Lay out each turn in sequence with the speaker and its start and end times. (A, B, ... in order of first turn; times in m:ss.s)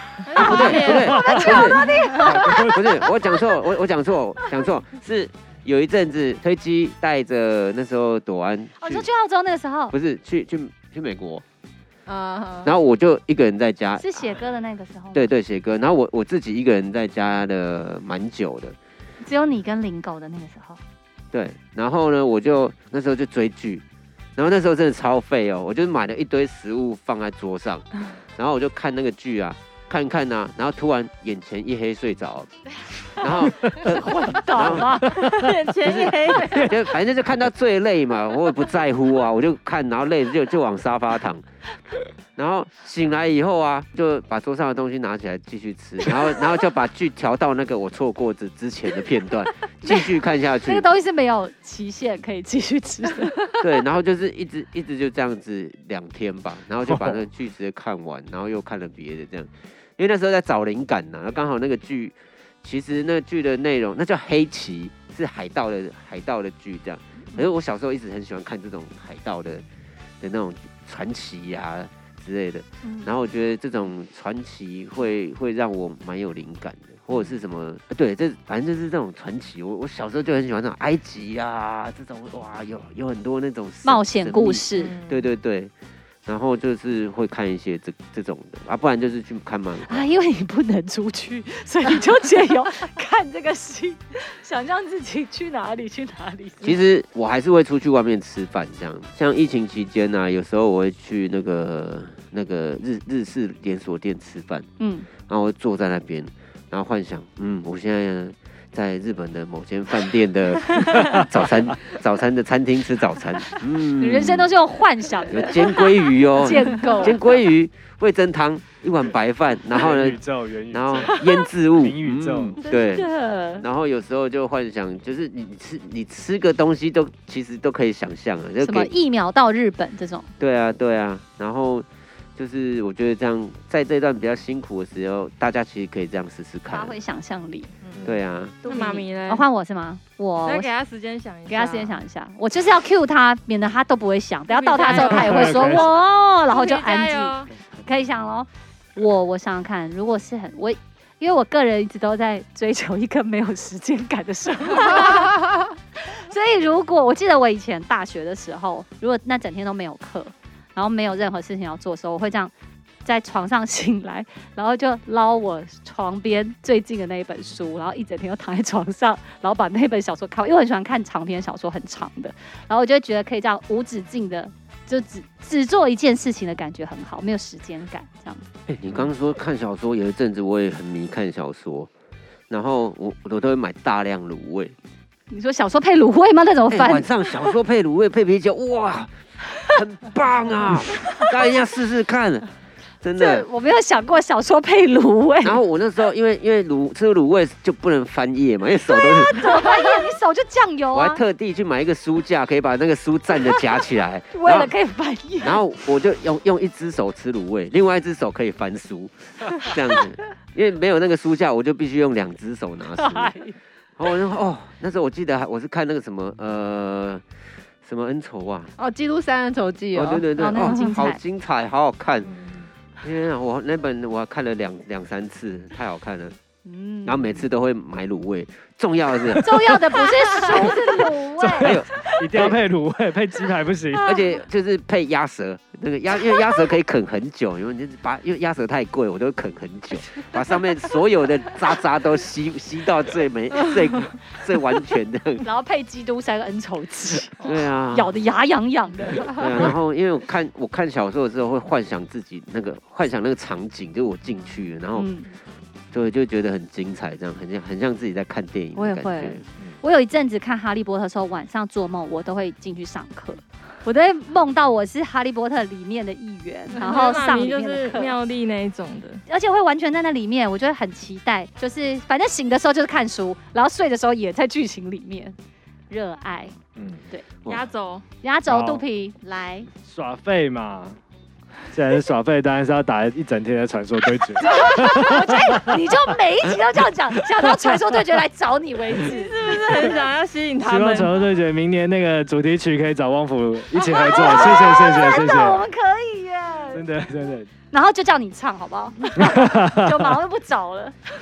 0:00.3-0:03.1 A
0:00.3-0:02.2 B
0:00.3-0:01.1 C
0:00.4-0:09.0 D
0:02.4-0:02.7 E
0:08.8-0:09.9 A
0:09.9-0:11.4 D
0:12.0-0:12.7 B
0:12.6-0:14.4 D
0:14.0-0:15.3 A
0:15.1-0:18.8 D
0:19.2-0:20.8 A
0:21.3-0:23.8 D
0:24.4-0:32.5 D
0:33.1-0:41.4 D
0:33.6-0:35.2 A
0:35.1-0:35.5 E
0:35.2-0:36.7 C
0:42.4-0:50.8 D
0:49.8-0:50.1 A
0:50.6-0:53.6 A
0:53.6-1:09.6 D
0:56.9-0:57.2 E
1:10.2-1:25.7 D
1:12.8-1:13.1 A
1:23.8-1:24.9 A
1:24.8-1:25.3 C
1:26.2-1:30.0 D
1:29.9-1:36.8 A
1:36.6-1:44.7 D
1:44.8-1:45.1 A
1:45.2-1:54.5 D
1:54.0-1:57.2 A
1:55.3-2:08.9 D
1:59.7-2:02.6 E
2:02.6-2:03.6 A
2:08.6-2:10.3 A
2:10.4-2:16.9 D
2:16.7-2:17.7 A
2:18.0-2:18.6 D
2:18.6-2:20.7 A
2:18.6-2:19.4 C
2:20.4-2:22.0 C
2:21.5-2:42.5 A
2:24.5-2:25.9 C
2:24.9-2:25.9 E
2:26.5-2:27.5 C
2:43.0-2:58.5 A
2:58.7-3:01.9 D
3:02.5-3:04.7 D
3:05.3-3:07.1 A
3:06.7-3:12.5 D
3:11.0-3:11.3 A
3:13.0-3:13.4 D
3:13.2-3:15.6 A
3:15.4-3:19.7 D
3:18.9-3:21.2 A
3:20.9-3:24.7 D
3:24.3-3:25.6 A
3:25.4-3:33.3 D
3:33.0-3:33.5 A
3:34.0-3:37.2 D
3:37.8-3:38.7 D
3:38.8-3:40.2 B
3:39.9-3:42.4 D
3:40.3-3:41.2 A
3:42.3-3:42.7 E
3:43.0-3:46.4 D
3:46.6-3:47.4 A
3:47.0-3:49.7 D
3:49.4-3:51.8 A
3:51.4-3:54.1 E
3:51.6-3:52.6 D
3:54.0-4:05.4 D
4:05.4-4:09.7 A
4:07.4-4:08.1 D
4:09.2-4:15.1 D
4:14.9-4:15.3 A
4:15.9-4:19.4 D
4:18.7-4:28.2 A
4:26.7-4:29.2 C
4:29.3-4:35.4 A
4:35.9-4:36.5 A
4:36.8-4:37.0 E
4:37.4-4:38.0 C
4:38.2-4:39.7 A
4:38.5-4:38.8 E
4:39.8-4:41.0 E
4:41.7-4:45.7 E
4:44.4-4:49.5 A
4:48.9-4:51.2 C
4:50.6-4:55.7 E
4:53.7-4:56.8 A
4:56.7-4:57.5 E
4:57.7-5:01.0 A
4:59.2-5:00.2 E